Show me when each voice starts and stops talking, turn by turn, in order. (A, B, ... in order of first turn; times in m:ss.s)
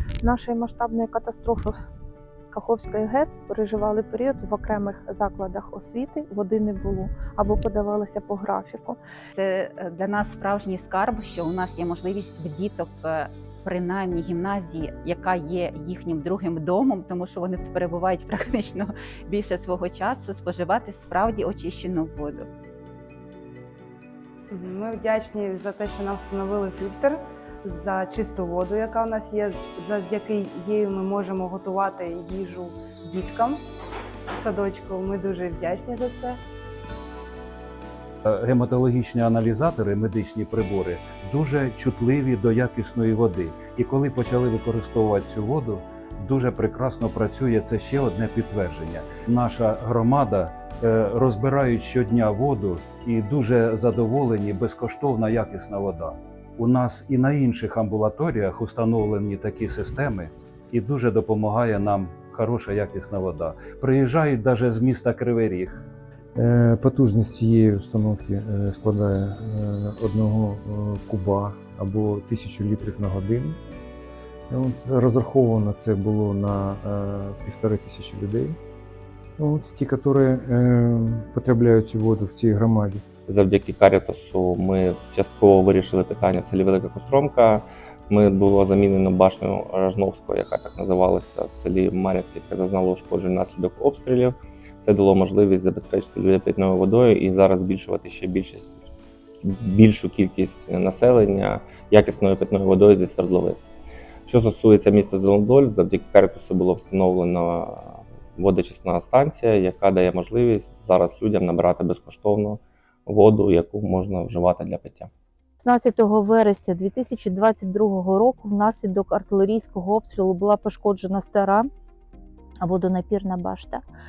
0:00.2-0:01.7 A
0:02.5-0:09.0 A
0:09.3-0:22.5 B
0:24.5-0:33.6 C
0:34.3-0:36.4 C
0:38.3-1:05.8 D
1:06.4-1:13.6 E
1:14.5-1:18.6 E
1:19.4-1:23.0 E
1:23.3-1:38.8 F
1:39.4-1:43.6 F
1:44.3-1:55.1 F
1:55.6-2:01.7 G
2:02.6-2:03.8 G